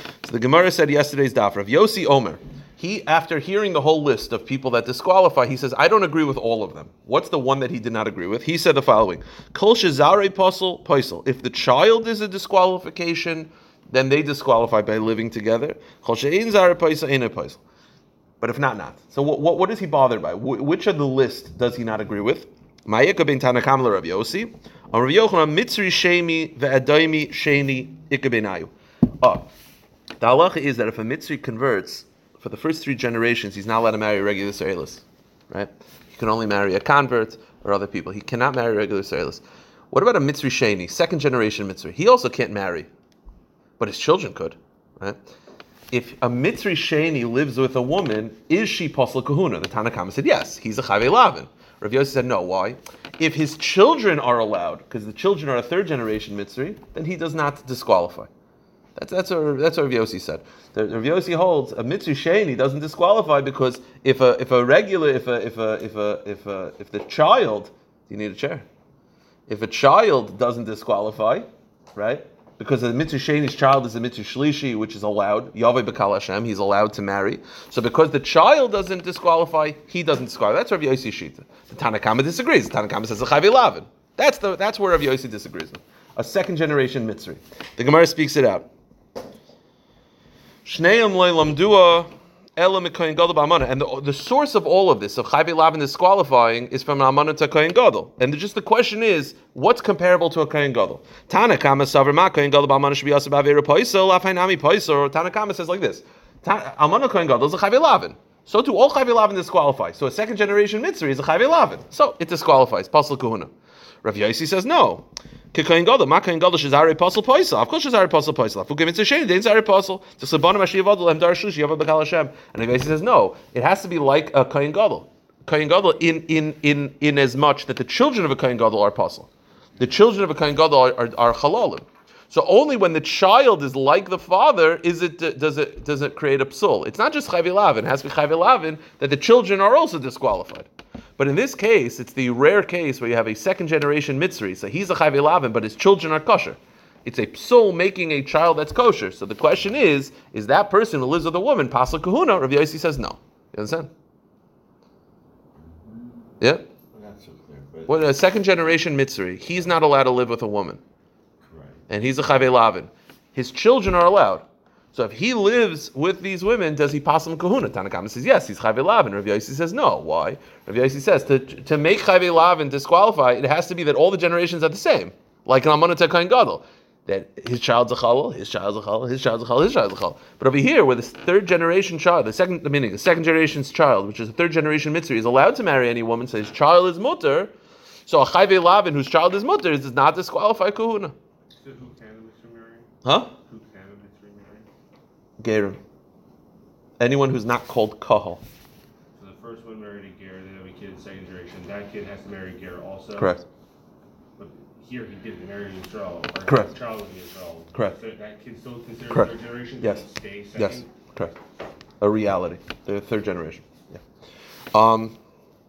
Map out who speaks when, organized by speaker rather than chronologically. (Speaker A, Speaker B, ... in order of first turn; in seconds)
Speaker A: 0.2-17.6, 18.4-29.5, 30.2-42.9, 43.8-45.2, 45.9-58.3, 59.0-68.7, 69.5-88.7, 90.6-113.5, 114.0-153.9, 156.4-156.6, 157.9-160.8, 161.9-187.5, 188.1-191.1, 193.0-193.3, 195.4-195.8, 197.0-198.4, 203.2-203.4, 206.4-206.7, 209.1-210.0, 210.6-211.3, 212.0-214.0, 214.7-215.2
Speaker B: 155.6-156.2, 156.9-158.1, 161.4-161.8
Speaker C: 191.6-194.6, 199.2-203.4, 204.4-210.9